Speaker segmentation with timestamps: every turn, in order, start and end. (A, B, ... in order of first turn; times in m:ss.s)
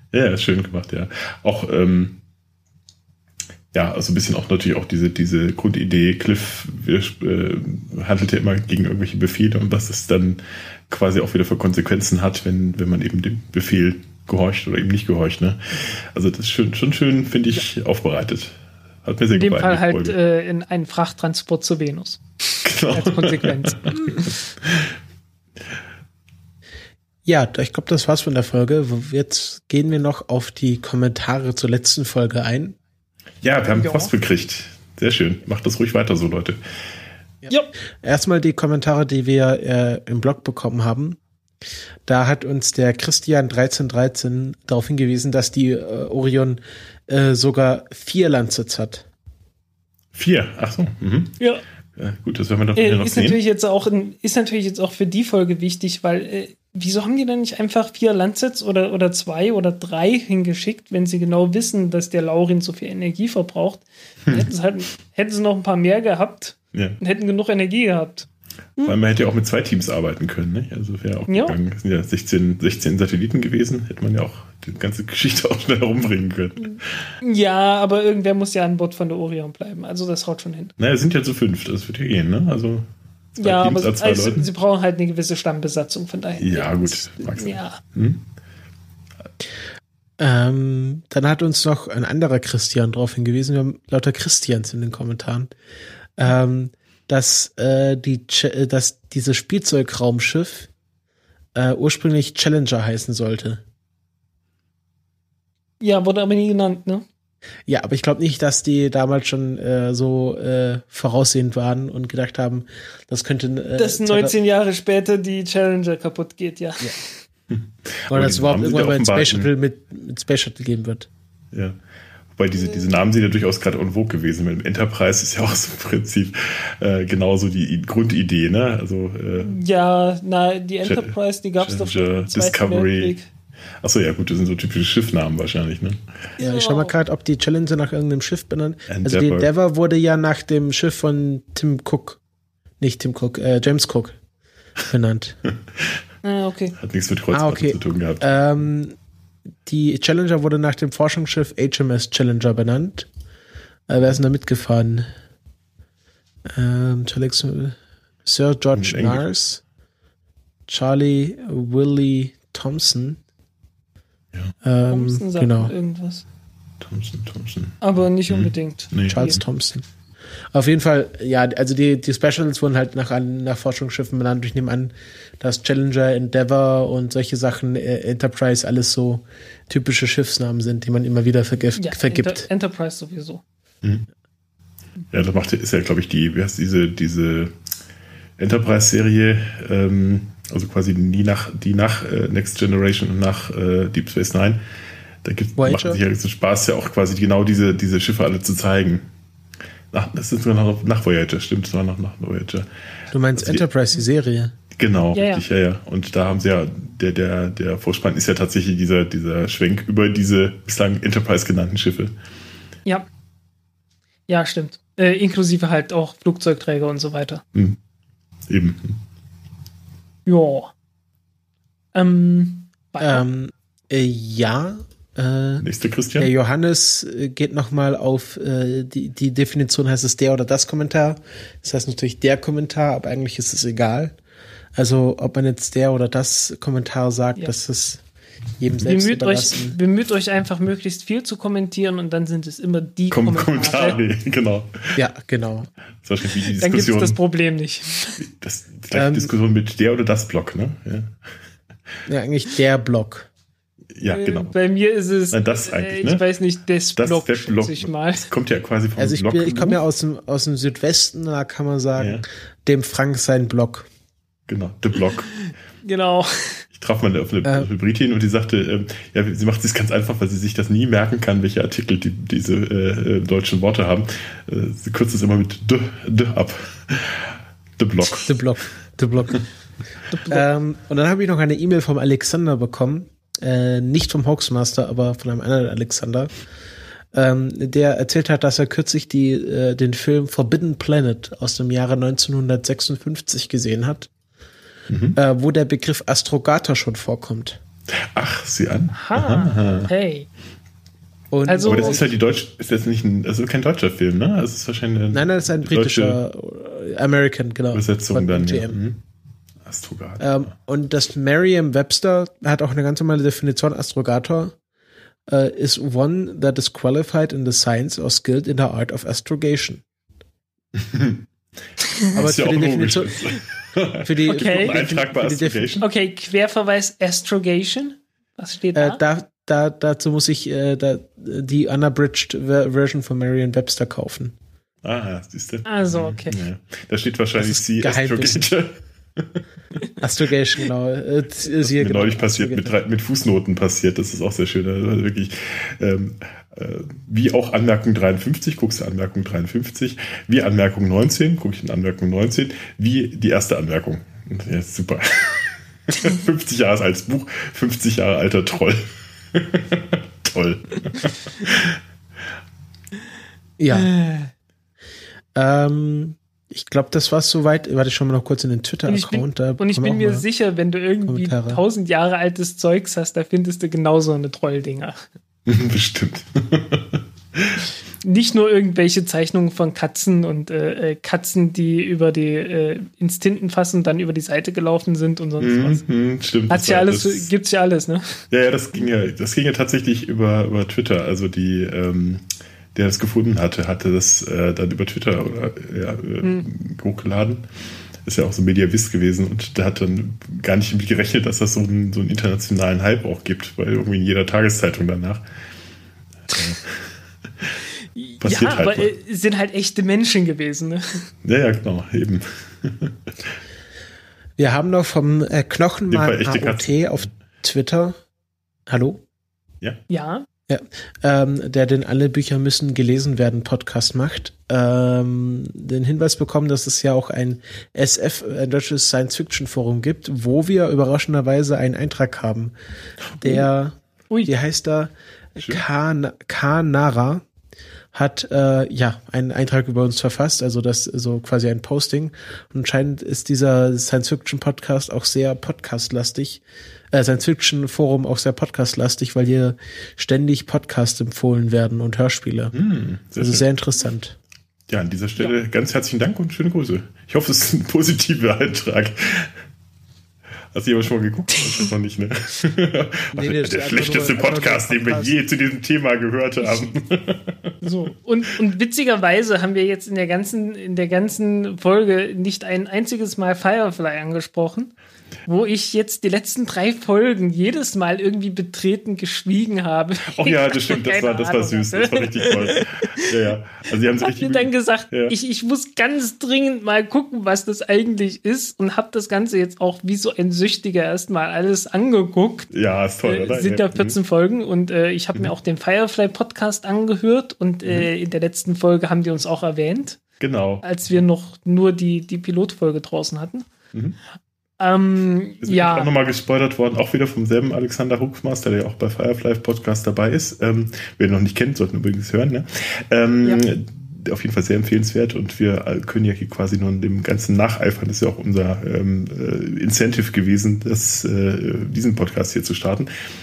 0:00.1-0:02.2 A
0:03.7-0:20.2 A
0:19.3-0:22.2 B
0:22.6-0:24.9 A
0:22.9-0:24.3 B
0:27.3-0:32.8 C
0:33.4-0:36.6 A
0:33.8-0:34.1 B
0:38.0-0:41.2 C
0:42.1-0:49.1 C
0:50.1-0:51.4 A
0:52.0-0:53.4 A
0:52.8-1:08.3 B
1:06.7-1:07.0 A
1:08.8-1:17.1 A
1:11.3-1:11.6 B
1:16.7-1:20.7 B
1:20.8-1:24.5 A
1:23.4-1:27.8 B
1:26.4-1:28.2 A
1:30.2-1:35.5 C
1:36.2-1:40.7 C
1:41.6-1:43.6 C
1:45.8-1:47.0 B
1:47.7-1:54.3 C
1:53.8-1:57.1 B
1:57.5-1:59.5 A
1:58.1-2:01.1 C
2:02.4-2:09.6 A
2:09.4-2:13.3 B
2:10.8-2:13.2 A
2:13.8-2:16.0 A
2:16.4-2:16.9 B
2:16.4-2:22.2 C
2:18.9-2:19.5 A
2:22.8-2:24.2 C
2:24.9-2:25.4 C
2:26.2-2:26.8 B
2:26.8-2:28.4 A
2:27.3-2:29.0 C
2:29.7-2:33.1 C
2:33.9-2:35.1 C
2:36.5-2:39.6 C
2:38.7-2:39.2 A
2:40.7-2:43.2 C
2:44.6-2:45.7 C
2:44.9-2:46.2 B
2:46.8-2:49.4 A
2:47.8-2:49.4 B
2:49.1-2:49.9 C
2:50.5-3:02.5 C
3:01.8-3:03.4 B
3:05.1-3:07.5 A
3:08.4-3:14.6 A
3:15.2-3:19.0 A
3:15.6-3:16.0 C
3:19.9-3:22.7 A
3:23.1-3:24.5 C
3:23.4-3:23.6 A
3:24.8-3:32.1 A
3:25.1-3:25.4 B
3:34.3-3:37.4 B
3:38.5-3:39.0 A
3:40.3-3:40.7 B
3:41.9-3:43.2 B
3:43.0-3:45.6 C
3:45.6-3:46.3 A
3:46.2-3:54.2 C
3:54.8-3:58.0 C
3:58.6-3:59.8 C
3:58.9-4:04.0 B
4:03.1-4:05.0 A
4:05.0-4:05.7 C
4:06.0-4:07.2 A
4:06.6-4:08.2 B
4:08.2-4:11.2 A
4:08.9-4:09.3 C
4:12.1-4:13.3 C
4:14.0-4:14.5 A
4:14.1-4:18.2 B
4:15.3-4:16.2 A
4:17.0-4:19.8 A
4:19.0-4:23.9 C
4:22.0-4:22.2 A
4:24.5-4:25.3 A
4:25.8-4:26.6 B
4:26.8-4:38.3 A
4:38.3-4:39.4 C
4:40.1-4:40.5 B
4:40.3-4:46.3 C
4:47.1-4:54.1 C
4:54.9-4:55.2 A
4:55.2-4:57.6 C
4:58.1-4:59.9 A
4:59.0-5:00.3 B
5:01.3-5:02.0 C
5:01.5-5:02.0 B
5:01.7-5:06.2 A
5:05.1-5:08.8 C
5:07.7-5:09.0 A
5:09.6-5:10.5 A
5:10.2-5:14.6 C
5:15.3-5:19.8 C
5:20.8-5:21.3 A
5:22.1-5:25.8 A
5:22.2-5:23.2 C
5:24.0-5:25.8 C
5:24.3-5:24.8 B
5:25.8-5:29.0 B
5:28.8-5:34.4 C
5:34.8-5:39.4 A
5:35.7-5:36.4 B
5:37.4-5:38.4 C
5:40.0-5:42.7 C
5:41.6-6:01.8 A
6:03.6-6:03.9 C
6:03.7-6:04.3 B
6:05.4-6:10.3 C
6:08.9-6:15.0 B
6:11.1-6:11.6 C
6:15.5-6:17.6 A
6:18.0-6:25.8 B
6:25.4-6:27.3 A
6:26.5-6:28.2 B
6:28.3-6:37.4 A
6:38.0-6:45.2 A
6:46.3-6:46.9 A
6:48.0-6:51.1 B
6:48.2-6:48.9 A
6:51.2-6:53.0 A
6:54.4-6:58.0 C
6:55.9-6:57.1 A
6:58.7-6:59.0 C
6:59.9-7:00.3 B
7:00.5-7:12.5 C
7:13.2-7:17.2 C
7:17.9-7:32.5 C
7:32.5-7:33.5 A
7:33.2-7:34.2 C
7:34.7-7:39.3 A
7:40.5-7:47.6 A
7:43.1-7:45.2 C
7:47.6-7:54.7 B
7:55.3-8:03.1 B
8:00.1-8:05.1 A
8:04.0-8:12.5 B
8:12.5-8:14.0 A
8:13.0-8:20.0 B
8:20.2-8:21.0 A
8:20.6-8:23.5 B
8:24.6-8:25.9 B
8:25.4-8:42.9 A